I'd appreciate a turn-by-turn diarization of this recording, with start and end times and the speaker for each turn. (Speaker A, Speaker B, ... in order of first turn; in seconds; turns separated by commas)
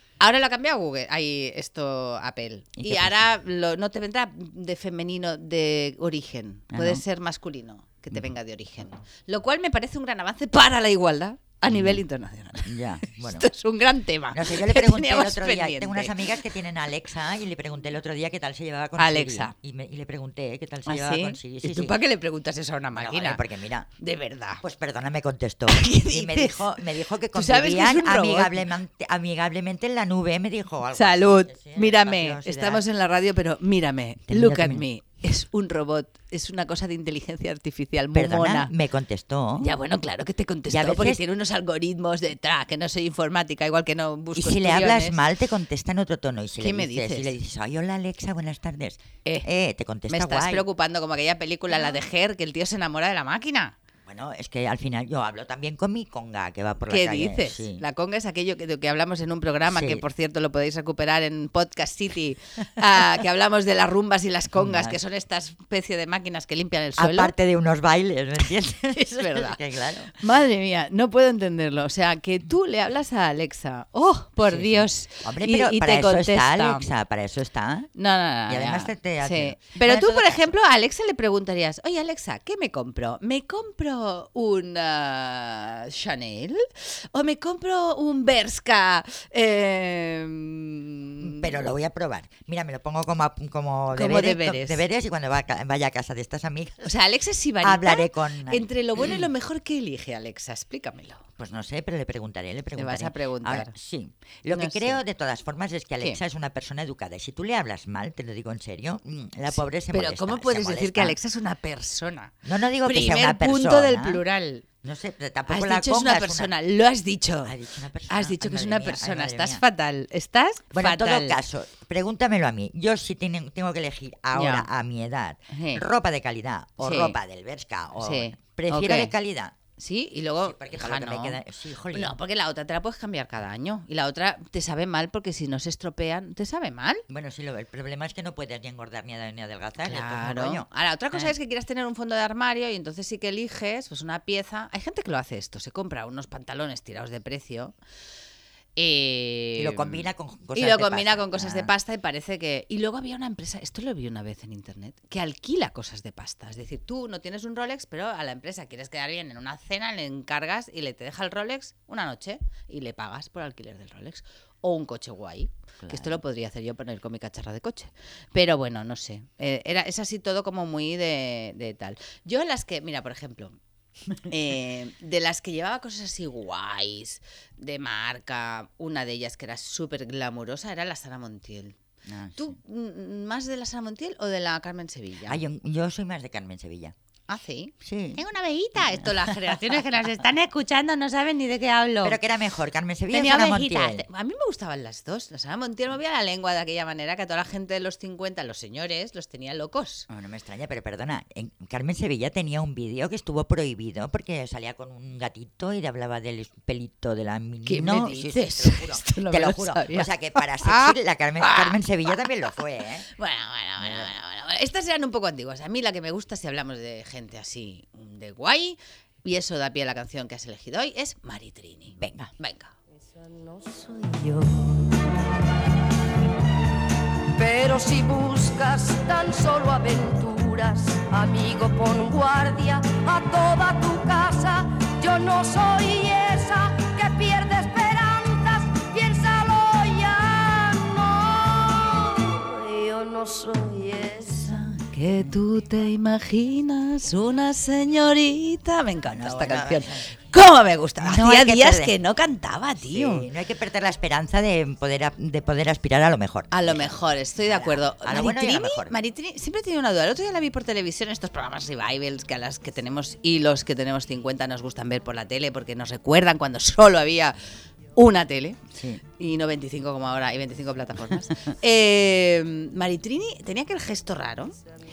Speaker A: 0.2-16.3, Speaker B: 2.8-3.2, Speaker B: 6.7-7.0, Speaker B: 11.7-12.0, Speaker B: 12.7-13.5, Speaker B: 14.3-22.0, Speaker A: 19.0-19.5, Speaker A: 20.9-23.4, Speaker B: 22.9-23.9, Speaker A: 24.0-24.6, Speaker B: 24.6-32.8, Speaker A: 25.7-26.8, Speaker A: 27.3-28.7, Speaker A: 30.9-38.7, Speaker B: 34.3-34.8, Speaker B: 38.1-39.7, Speaker A: 39.6-45.2, Speaker B: 40.7-41.2, Speaker B: 44.4-50.6, Speaker A: 46.6-47.3, Speaker A: 50.1-53.8, Speaker B: 54.1-57.8, Speaker A: 56.9-67.3, Speaker B: 59.6-60.0, Speaker B: 64.6-65.0, Speaker B: 67.0-70.2, Speaker A: 68.5-76.9, Speaker B: 74.5-77.9, Speaker A: 78.0-91.6, Speaker B: 78.5-80.5, Speaker B: 91.2-96.9, Speaker A: 93.9-94.8, Speaker A: 96.8-101.2, Speaker B: 97.6-99.2, Speaker B: 101.4-111.2, Speaker A: 102.8-103.7, Speaker A: 104.5-105.0, Speaker A: 109.5-112.3, Speaker B: 112.4-114.2, Speaker A: 112.8-114.6, Speaker B: 114.8-116.5, Speaker A: 115.5-117.5, Speaker B: 117.4-119.6, Speaker A: 118.1-121.4, Speaker B: 120.7-129.5, Speaker A: 124.3-124.7, Speaker A: 125.5-125.8, Speaker A: 126.8-127.2, Speaker A: 128.0-129.1, Speaker A: 129.8-131.4, Speaker B: 130.4-132.1, Speaker A: 131.9-137.0, Speaker B: 137.1-141.3, Speaker A: 139.8-147.7, Speaker A: 148.8-150.1, Speaker B: 149.6-151.7, Speaker A: 150.6-173.6, Speaker B: 165.8-166.2, Speaker A: 174.2-181.8, Speaker B: 182.1-182.5, Speaker A: 182.4-185.4, Speaker B: 185.3-186.9, Speaker A: 187.3-192.2, Speaker B: 187.8-188.2, Speaker B: 188.8-189.8, Speaker B: 192.0-194.1, Speaker A: 193.1-200.1, Speaker B: 200.1-213.1, Speaker A: 207.7-222.7, Speaker B: 213.8-214.1, Speaker B: 222.0-222.3, Speaker C: 223.5-224.1, Speaker B: 224.2-224.5, Speaker C: 227.2-244.6, Speaker A: 244.3-253.2, Speaker B: 249.1-250.1, Speaker B: 251.0-251.9, Speaker B: 252.8-258.9, Speaker A: 256.5-267.4, Speaker A: 267.9-268.6, Speaker B: 268.7-269.0, Speaker A: 269.1-274.6